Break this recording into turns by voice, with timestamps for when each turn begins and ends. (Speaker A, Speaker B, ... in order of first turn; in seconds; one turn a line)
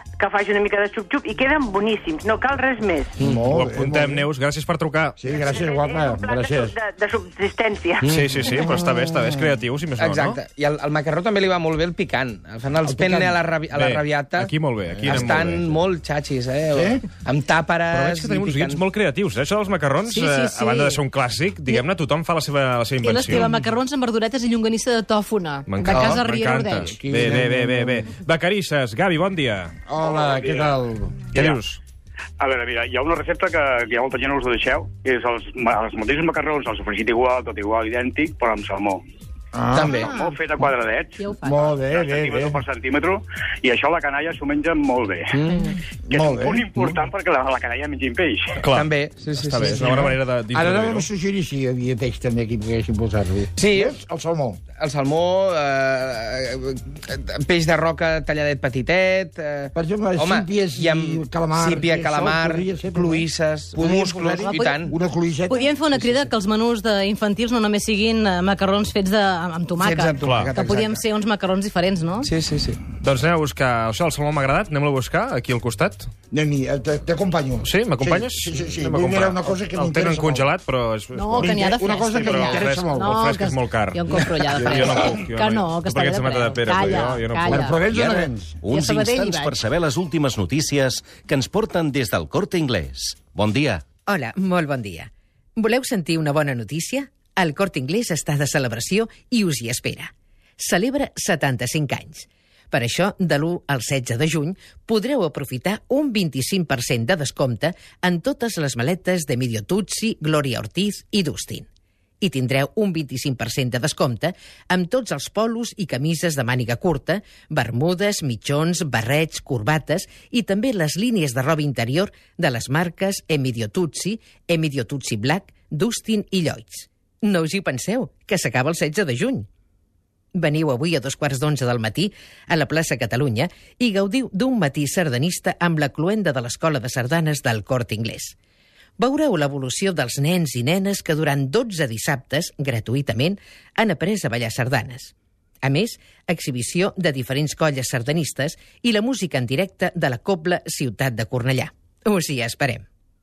Speaker A: 0.2-3.1
Speaker B: 3.2-4.3
Speaker C: 3.5-5.2
Speaker B: 5.2-6.8
Speaker A: 5.3-8.1
Speaker D: 8.0-8.3
Speaker C: 8.1-10.4
Speaker B: 8.5-9.5
Speaker D: 10.0-14.5
Speaker B: 12.8-13.4
Speaker C: 13.7-15.8
Speaker B: 15.0-15.4
Speaker D: 15.1-18.9
Speaker B: 16.7-17.0
Speaker C: 17.9-23.5
Speaker E: 20.1-21.0
Speaker E: 23.0-26.9
Speaker B: 23.3-23.6
Speaker C: 25.7-29.8
Speaker D: 25.9-26.2
Speaker B: 26.9-28.1
Speaker B: 29.9-31.3
Speaker C: 31.3-31.8
Speaker F: 32.4-33.5
Speaker F: 36.0-36.4
Speaker F: 37.8-38.1
Speaker B: 39.5-40.0
Speaker D: 39.7-40.2
Speaker E: 39.9-40.4
Speaker E: 41.2-41.6
Speaker B: 41.4-42.6
Speaker F: 43.8-45.2
Speaker D: 45.3-45.7
Speaker B: 46.1-46.9
Speaker F: 46.8-48.2
Speaker C: 48.6-51.1
Speaker D: 48.7-50.1
Speaker B: 49.8-54.6
Speaker D: 53.6-54.0
Speaker D: 54.8-65.0
Speaker B: 59.8-65.7
Speaker E: 64.4-64.9
Speaker E: 65.5-72.3
Speaker D: 66.0-66.3
Speaker D: 69.8-71.0
Speaker C: 70.2-70.5
Speaker D: 72.2-72.8
Speaker C: 73.0-76.1
Speaker B: 76.3-80.5
Speaker C: 77.6-87.7
Speaker E: 81.1-87.8
Speaker B: 81.4-83.2
Speaker B: 87.5-88.6
Speaker G: 87.9-93.8
Speaker E: 88.7-89.5
Speaker H: 94.1-111.7
Speaker H: 112.2-129.5
Speaker H: 130.3-138.3
Speaker H: 139.0-152.8